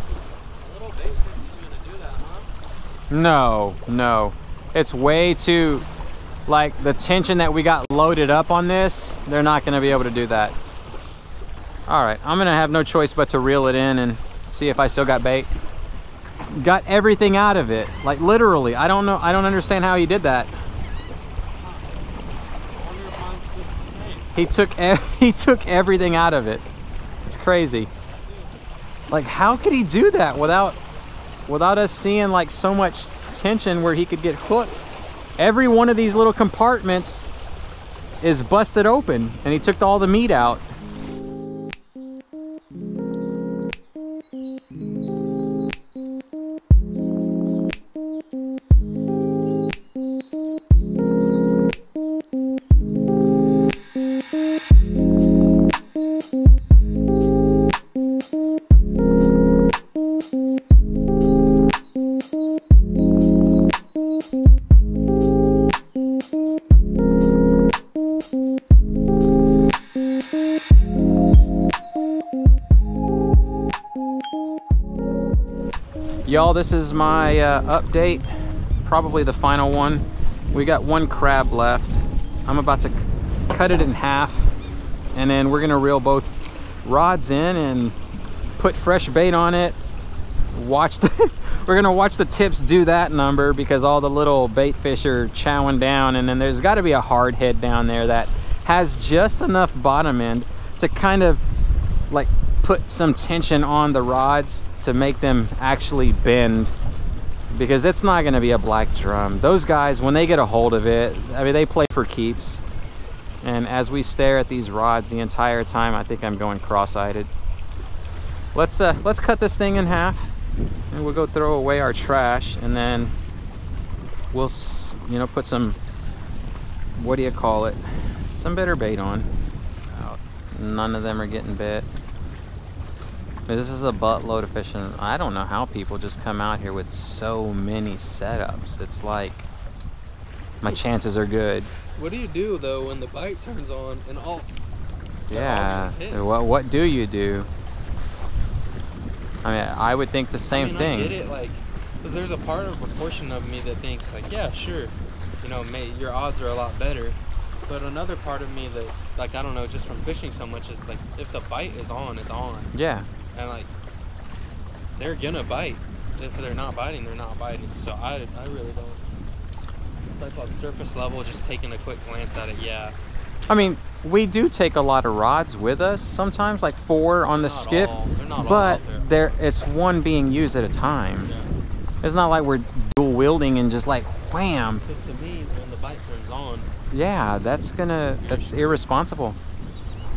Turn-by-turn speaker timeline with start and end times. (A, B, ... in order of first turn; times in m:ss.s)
0:00.6-0:02.5 A
0:03.1-0:05.9 B
0:06.5-0:10.6 B
0:11.9-0:15.5 B
0:16.5-0:20.5 B
0:21.5-0:22.0 A
0:22.7-0:24.3 A
0:24.4-0:26.7 B
0:27.2-0:27.9 B
0:28.1-0:28.5 A
0:29.1-0:30.8 B
0:31.5-0:34.8 B
0:35.4-0:37.2 B
0:38.2-0:40.6 B
1:16.3-1:24.5 B
1:25.2-1:26.3 B
1:26.8-1:28.0 B
1:28.6-1:29.8 B
1:30.5-1:41.4 B
1:42.1-1:46.7 B
1:47.5-1:52.6 B
1:53.4-1:57.3 B
1:58.6-2:00.4 B
2:00.9-2:03.1 B
2:04.3-2:05.8 B
2:07.0-2:09.3 B
2:10.0-2:11.9 B
2:13.5-2:19.5 B
2:20.6-2:21.7 B
2:22.0-2:24.5 A
2:25.3-2:26.2 A
2:25.3-2:27.5 B
2:29.4-2:31.2 B
2:30.5-2:42.7 A
2:42.7-2:43.1 B
2:43.3-2:43.7 A
2:45.0-2:49.0 A
2:50.1-2:53.0 A
2:53.5-3:01.3 B
2:57.3-2:59.6 A
3:02.0-3:04.8 B
3:04.8-3:06.7 A
3:06.9-3:09.4 B
3:08.2-3:08.6 A